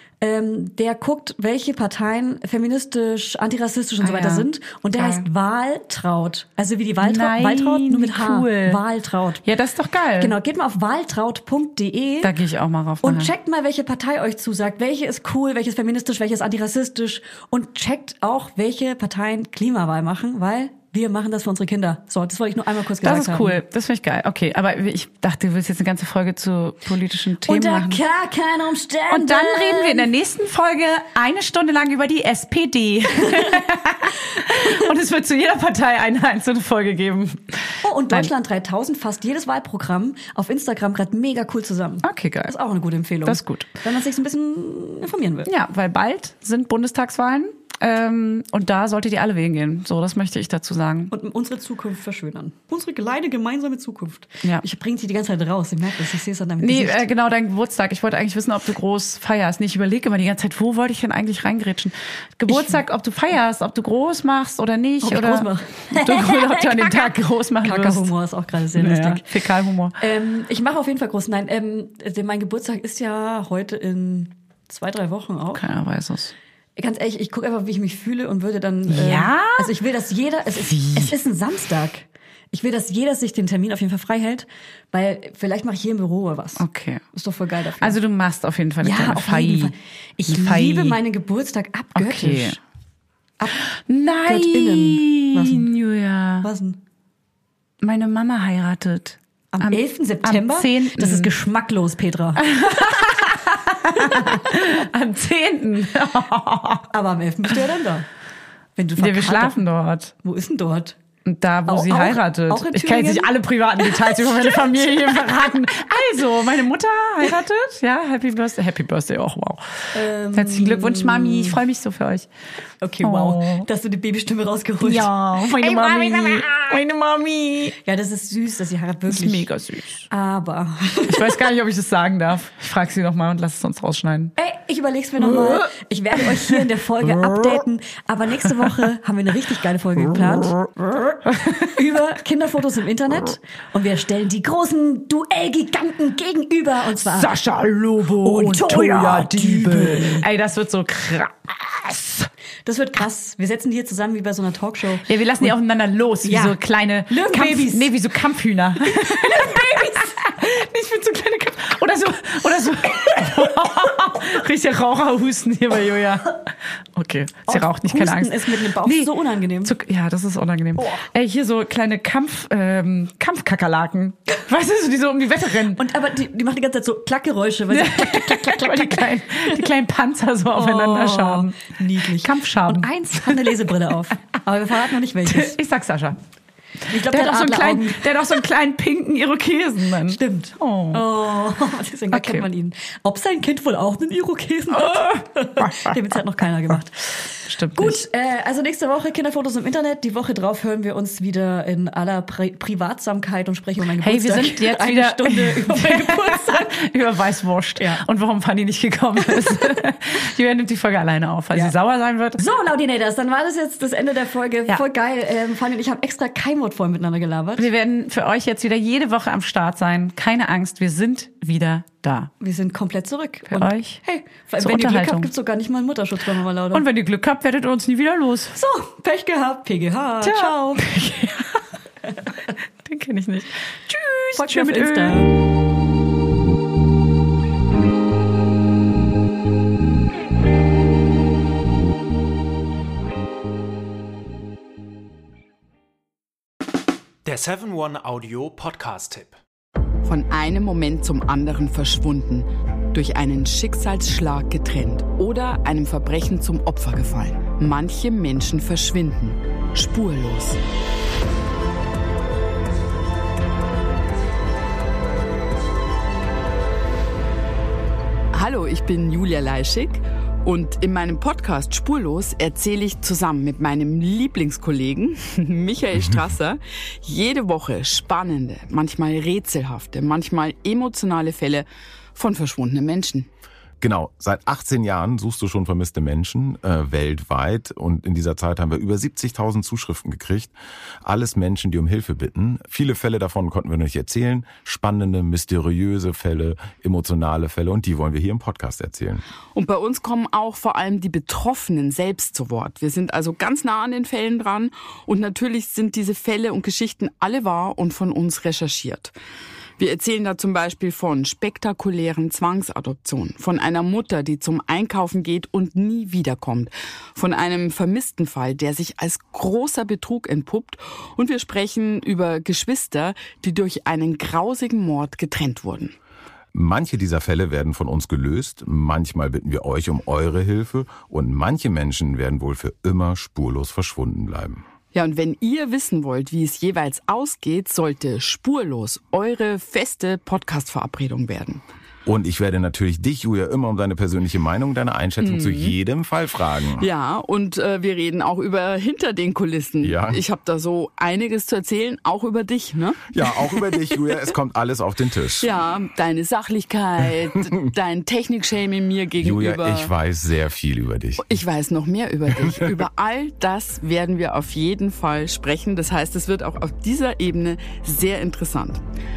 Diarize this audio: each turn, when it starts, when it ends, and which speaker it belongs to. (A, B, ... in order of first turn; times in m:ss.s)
0:00.2-0:09.4 A
0:04.0-0:05.2 B
0:07.0-0:08.8 B
0:09.4-0:10.3 B
0:10.2-0:12.3 A
0:12.2-0:13.3 B
0:13.0-0:23.6 A
0:23.0-0:28.0 B
0:27.4-0:30.1 A
0:29.1-0:38.3 B
0:33.3-0:33.6 A
0:37.8-0:45.5 A
0:42.0-0:42.5 B
0:43.2-0:43.7 B
0:45.4-0:51.1 B
0:51.1-0:57.1 A
0:56.6-1:08.1 B
1:02.5-1:02.8 A
1:05.0-1:09.3 A
1:08.8-1:10.0 B
1:10.0-1:15.6 A
1:15.5-1:16.3 B
1:16.8-1:28.0 A
1:18.9-1:19.7 B
1:20.6-1:21.1 B
1:26.6-1:27.0 B
1:27.8-1:29.7 B
1:28.8-1:32.6 A
1:30.3-1:31.0 B
1:31.9-1:32.6 B
1:33.9-1:36.5 B
1:34.2-1:35.7 A
1:36.4-1:36.8 A
1:37.8-1:41.3 B
1:39.5-1:43.1 A
1:42.4-1:46.9 B
1:44.0-1:44.5 A
1:46.9-1:48.0 A
1:48.8-1:49.6 A
1:49.0-1:50.1 B
1:50.2-1:51.0 A
1:51.2-1:59.8 B
1:51.6-1:55.3 A
1:59.9-2:01.6 A
2:00.3-2:02.3 B
2:02.8-2:06.7 A
2:03.0-2:03.7 B
2:04.8-2:07.8 B
2:07.8-2:09.5 A
2:09.1-2:10.1 B
2:10.1-2:11.4 A
2:11.1-2:14.3 B
2:14.4-2:27.3 A
2:15.2-2:15.7 B
2:16.2-2:16.6 B
2:21.3-2:21.7 B
2:27.0-2:32.3 B
2:28.2-2:30.3 A
2:32.6-2:35.5 A
2:35.0-2:46.4 B
2:36.2-2:37.9 A
2:38.8-2:40.2 A
2:46.9-2:49.1 B
2:47.5-2:49.7 A
2:49.6-2:55.8 B
2:50.8-2:51.0 A
2:55.7-2:59.7 A
2:57.7-3:01.6 B
3:00.5-3:05.6 A
3:02.2-3:03.5 B
3:05.2-3:06.2 B
3:06.9-3:08.4 A
3:06.9-3:11.0 B
3:10.1-3:26.7 A
3:12.1-3:12.5 B
3:14.7-3:15.9 B
3:17.4-3:18.0 B
3:24.0-3:32.4 B
3:27.8-3:28.0 A
3:29.3-3:29.8 A
3:32.4-3:37.7 A
3:37.6-3:42.3 B
3:42.4-3:46.8 A
3:43.5-3:44.0 B
3:44.6-3:45.3 B
3:46.7-3:48.6 B
3:48.5-3:50.9 A
3:50.2-3:51.6 B
3:52.8-3:55.2 B
3:54.4-3:55.4 A
4:07.2-4:09.4 C
4:10.0-4:20.6 D
4:28.3-4:43.3 D
4:43.8-4:50.5 E
4:51.0-4:59.2 E
4:59.5-5:09.1 D
5:09.8-5:26.0 D
5:26.5-5:34.6 E
5:34.9-5:41.6 D
5:42.0-5:46.8 E
5:45.2-5:45.7 B
5:46.8-5:54.3 D
5:49.8-5:50.2 E
5:53.1-5:55.5 E
5:55.4-5:59.9 D
5:59.2-6:01.3 E
6:01.2-6:08.8 D